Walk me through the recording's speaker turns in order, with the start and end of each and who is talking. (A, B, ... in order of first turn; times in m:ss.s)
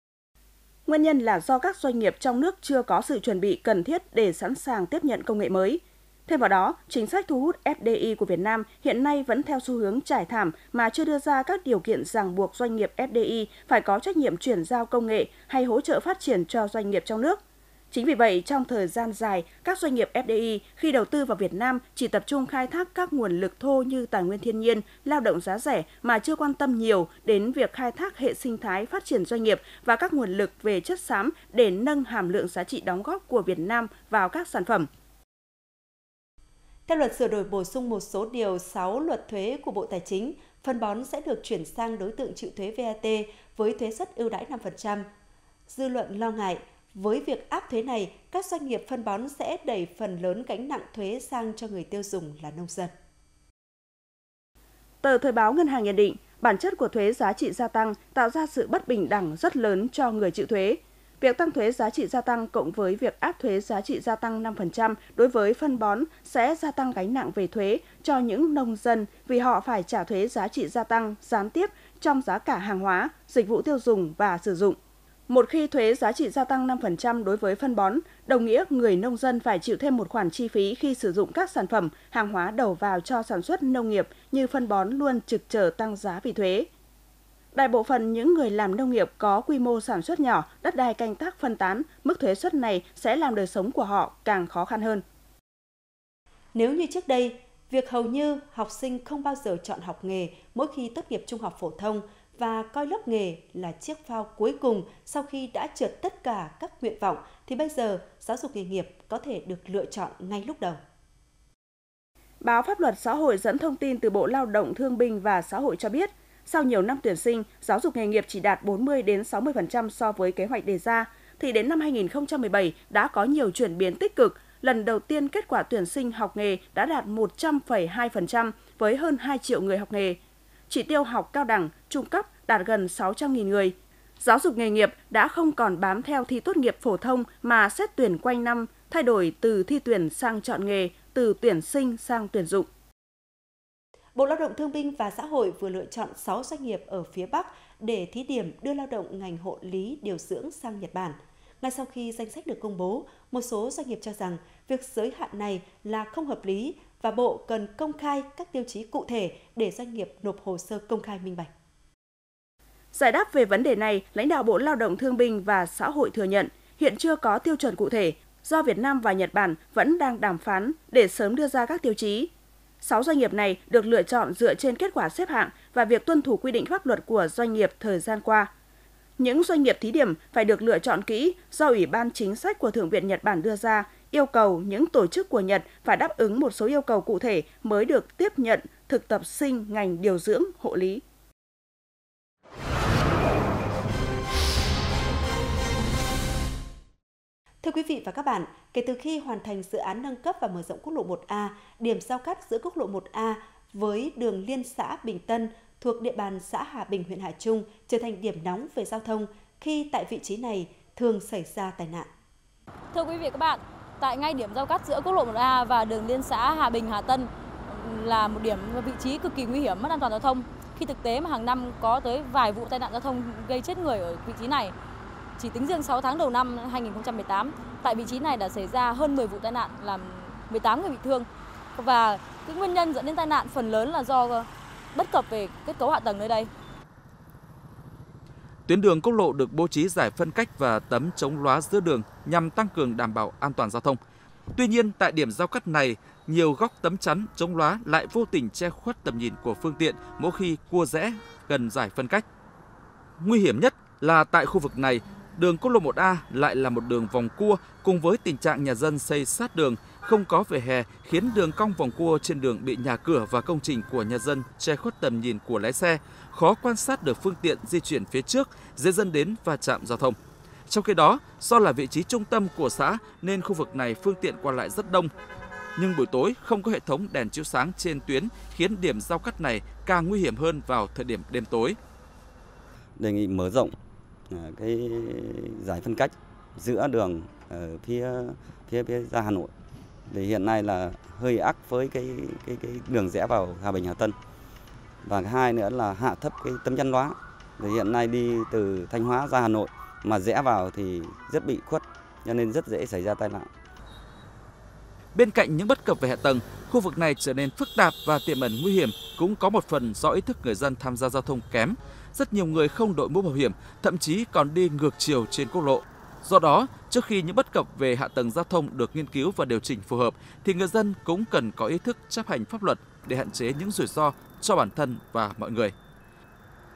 0:00.8-0:17.4 A
0:17.9-0:34.9 A
0:36.9-0:45.0 B
0:45.7-0:52.9 B
0:55.0-1:14.8 A
1:15.3-1:26.7 A
1:27.5-1:35.0 A
1:36.5-1:50.8 B
1:52.4-2:22.7 A
2:24.2-2:41.5 B
2:42.9-2:52.3 A
2:52.8-2:58.5 A
2:59.2-3:11.0 A
3:17.6-3:32.1 B
3:32.9-3:44.7 C
3:45.4-3:56.5 C
3:58.6-4:04.0 D
4:04.6-4:12.2 D
4:13.2-4:30.2 D
4:30.7-4:35.1 D
4:35.8-4:41.8 D
4:43.0-4:43.7 E
4:44.3-4:49.5 E
4:50.1-4:54.2 E
4:55.0-5:03.5 E
5:05.1-5:25.7 D